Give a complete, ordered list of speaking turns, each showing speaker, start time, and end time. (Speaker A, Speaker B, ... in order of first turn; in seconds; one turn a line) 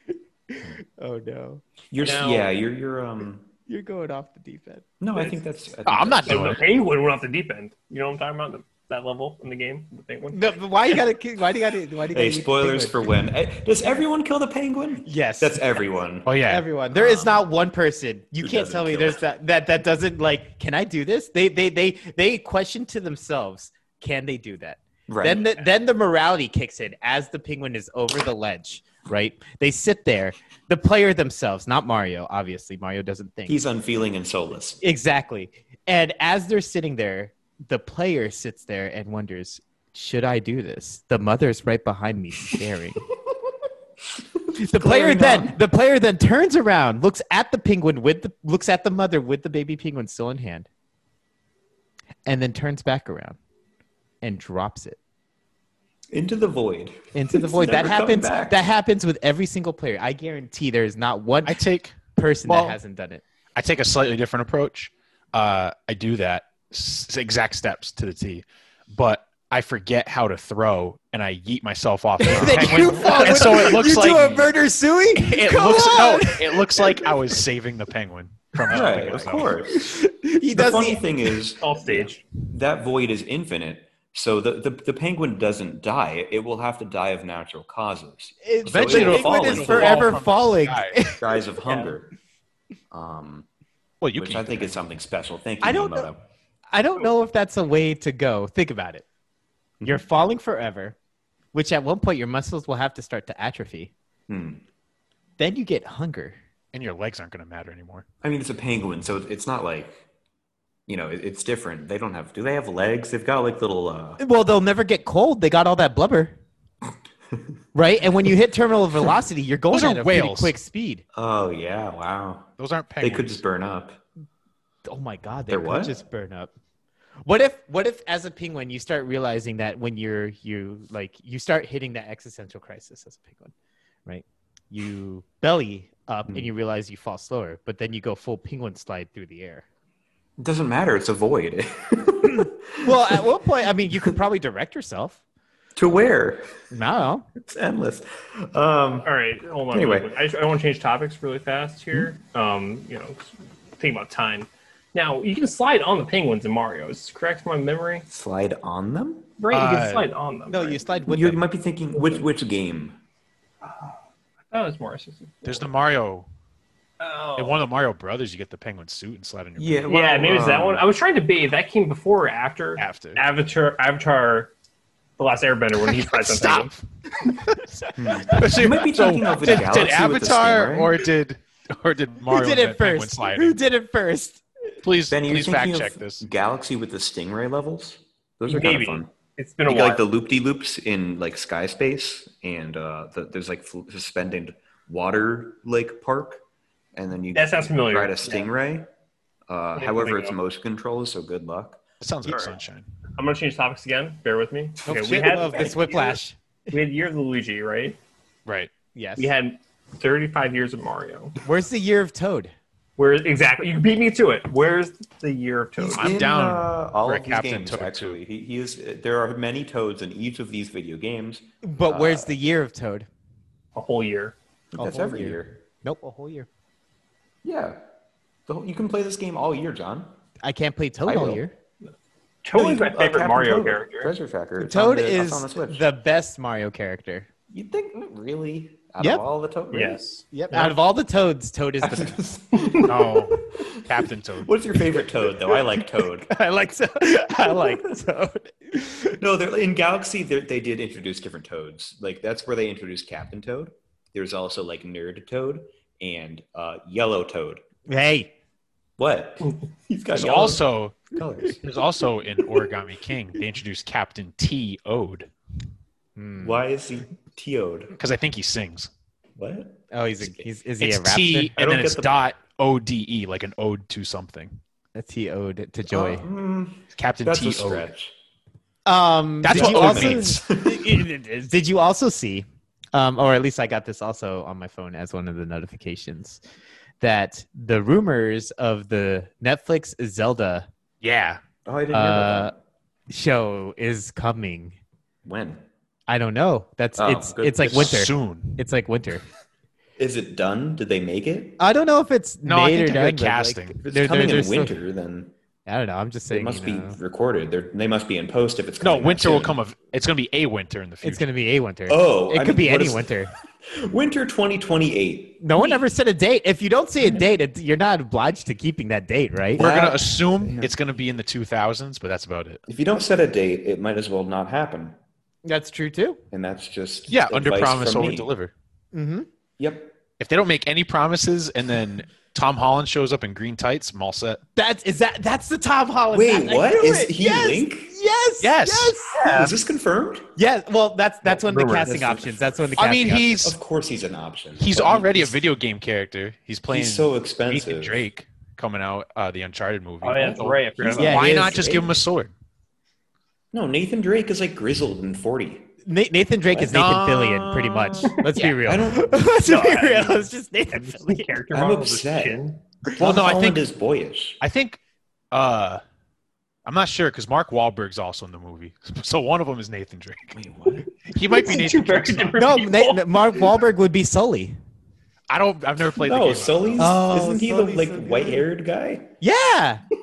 Speaker A: 0.5-1.6
Speaker B: 1.9-3.5
Speaker C: 2.0-2.5
Speaker A: 3.7-4.8
Speaker B: 5.0-6.6
Speaker D: 5.8-6.6
Speaker C: 6.2-10.6
Speaker A: 10.3-13.0
Speaker B: 12.1-16.3
Speaker A: 15.0-15.7
Speaker D: 16.2-16.6
Speaker A: 16.4-33.6
Speaker B: 16.9-17.5
Speaker B: 18.4-19.2
Speaker B: 25.1-25.5
Speaker B: 33.5-34.8
Speaker A: 34.8-43.0
Speaker B: 44.5-45.6
Speaker A: 44.6-50.7
Speaker A: 52.2-53.4
Speaker A: 54.2-55.0
Speaker B: 56.1-58.7
Speaker A: 57.1-63.2
Speaker D: 61.4-62.8
Speaker D: 63.5-74.5
Speaker A: 72.2-77.3
Speaker B: 72.3-73.5
Speaker D: 75.2-79.5
Speaker A: 78.5-79.0
Speaker B: 78.7-79.9
Speaker A: 79.7-81.4
Speaker B: 80.5-90.2
Speaker C: 81.6-82.2
Speaker A: 88.4-91.3
Speaker D: 88.7-90.9
Speaker B: 91.2-92.1
Speaker B: 92.9-93.5
Speaker D: 94.0-94.8
Speaker B: 94.1-96.2
Speaker A: 95.6-96.1
Speaker A: 96.7-99.0
Speaker A: 99.8-101.0
Speaker A: 101.5-103.9
Speaker B: 104.3-104.6
Speaker A: 105.4-106.4
Speaker D: 106.7-108.0
Speaker B: 108.2-110.0
Speaker B: 110.9-114.2
Speaker A: 114.2-116.3
Speaker A: 117.7-121.0
Speaker D: 119.7-120.5
Speaker B: 121.1-124.0
Speaker D: 122.6-123.4
Speaker A: 124.8-126.5
Speaker B: 125.5-126.0
Speaker A: 127.2-133.5
Speaker A: 134.1-139.6
Speaker B: 140.4-143.2
Speaker A: 142.8-145.2
Speaker B: 145.8-146.5
Speaker A: 146.7-147.2
Speaker B: 147.4-149.1
Speaker C: 149.0-158.1
Speaker B: 149.7-150.1
Speaker B: 158.1-159.3
Speaker C: 159.4-160.9
Speaker D: 159.5-160.1
Speaker A: 160.5-161.4
Speaker B: 161.1-163.0
Speaker C: 163.6-164.0
Speaker C: 164.5-165.7
Speaker D: 165.4-166.3
Speaker C: 167.0-167.6
Speaker D: 167.4-169.8
Speaker B: 169.6-170.9
Speaker C: 169.9-174.5
Speaker D: 172.8-173.2
Speaker C: 175.2-176.7
Speaker D: 175.9-176.8
Speaker D: 177.4-183.6
Speaker B: 177.9-181.0
Speaker A: 182.3-184.4
Speaker D: 184.8-186.2
Speaker B: 185.1-189.1
Speaker C: 188.5-190.0
Speaker B: 189.7-196.4
Speaker B: 196.9-198.9
Speaker C: 197.3-198.4
Speaker B: 199.5-201.8
Speaker C: 199.8-200.3
Speaker D: 202.0-202.8
Speaker C: 202.3-202.6
Speaker C: 203.2-208.0
Speaker A: 204.8-206.4
Speaker D: 208.4-208.7
Speaker A: 208.9-209.3
Speaker C: 209.2-211.4
Speaker A: 211.4-212.5
Speaker C: 213.0-216.2
Speaker B: 215.8-222.4
Speaker D: 215.9-218.2
Speaker A: 221.6-223.1
Speaker C: 223.7-224.3
Speaker B: 224.7-225.6
Speaker A: 224.8-226.5
Speaker B: 227.4-227.8
Speaker B: 228.5-230.1
Speaker A: 230.4-231.5
Speaker B: 231.0-231.4
Speaker C: 232.4-234.1
Speaker B: 232.5-235.8
Speaker A: 234.6-237.3
Speaker B: 237.5-240.0
Speaker A: 239.0-239.2
Speaker C: 239.7-240.7
Speaker A: 240.3-242.2
Speaker B: 241.8-243.8
Speaker C: 242.5-242.9
Speaker D: 242.8-244.5
Speaker B: 244.4-246.3
Speaker A: 246.3-249.2
Speaker B: 247.4-248.0
Speaker B: 249.2-257.6
Speaker A: 257.9-258.3
Speaker B: 259.0-261.6
Speaker D: 260.1-265.3
Speaker A: 266.1-266.6
Speaker B: 266.4-267.9
Speaker D: 268.0-268.9
Speaker B: 269.4-270.5
Speaker A: 269.9-271.5
Speaker D: 270.8-274.6
Speaker B: 271.5-272.2
Speaker A: 274.9-276.2
Speaker B: 275.9-278.1
Speaker D: 276.9-277.9
Speaker A: 278.9-286.4
Speaker D: 279.4-280.4
Speaker B: 279.5-281.0
Speaker A: 287.0-290.7
Speaker D: 291.0-291.4
Speaker B: 291.6-292.5
Speaker A: 291.9-292.5
Speaker A: 293.1-294.8
Speaker B: 295.2-295.6
Speaker A: 296.1-299.2
Speaker B: 297.0-298.1
Speaker D: 297.7-298.6
Speaker B: 300.0-301.6
Speaker A: 301.6-304.8
Speaker D: 302.4-303.8
Speaker B: 303.8-305.3
Speaker A: 305.6-307.0
Speaker B: 306.3-309.6
Speaker D: 308.8-311.2
Speaker A: 311.0-313.3
Speaker B: 311.9-313.1
Speaker B: 313.6-315.8
Speaker A: 315.4-319.7
Speaker B: 319.6-320.7
Speaker D: 319.6-322.6
Speaker B: 322.7-324.9
Speaker A: 325.4-326.2
Speaker B: 326.3-328.3
Speaker D: 327.1-328.5
Speaker A: 328.9-329.3
Speaker B: 329.6-329.9
Speaker D: 330.2-334.4
Speaker A: 334.6-339.2
Speaker B: 336.1-337.9
Speaker D: 338.4-339.0
Speaker B: 339.1-340.3
Speaker C: 339.2-339.5
Speaker A: 340.4-343.3
Speaker C: 341.3-341.9
Speaker B: 341.8-342.7
Speaker D: 342.8-343.6
Speaker B: 343.3-345.4
Speaker D: 344.6-352.3
Speaker B: 346.7-348.0
Speaker C: 350.0-351.4
Speaker B: 350.2-352.0
Speaker A: 351.0-351.8
Speaker B: 353.5-355.7
Speaker A: 355.9-361.4
Speaker B: 356.5-359.4
Speaker D: 356.7-357.4
Speaker C: 359.4-362.6
Speaker B: 361.5-364.4
Speaker D: 363.0-363.6
Speaker D: 364.4-364.8
Speaker D: 365.3-365.8
Speaker D: 366.6-370.3
Speaker B: 370.3-370.9
Speaker D: 371.0-372.4
Speaker C: 371.1-373.4
Speaker A: 372.3-374.6
Speaker D: 375.3-376.9
Speaker B: 375.9-379.1
Speaker A: 376.8-378.4
Speaker A: 379.2-379.8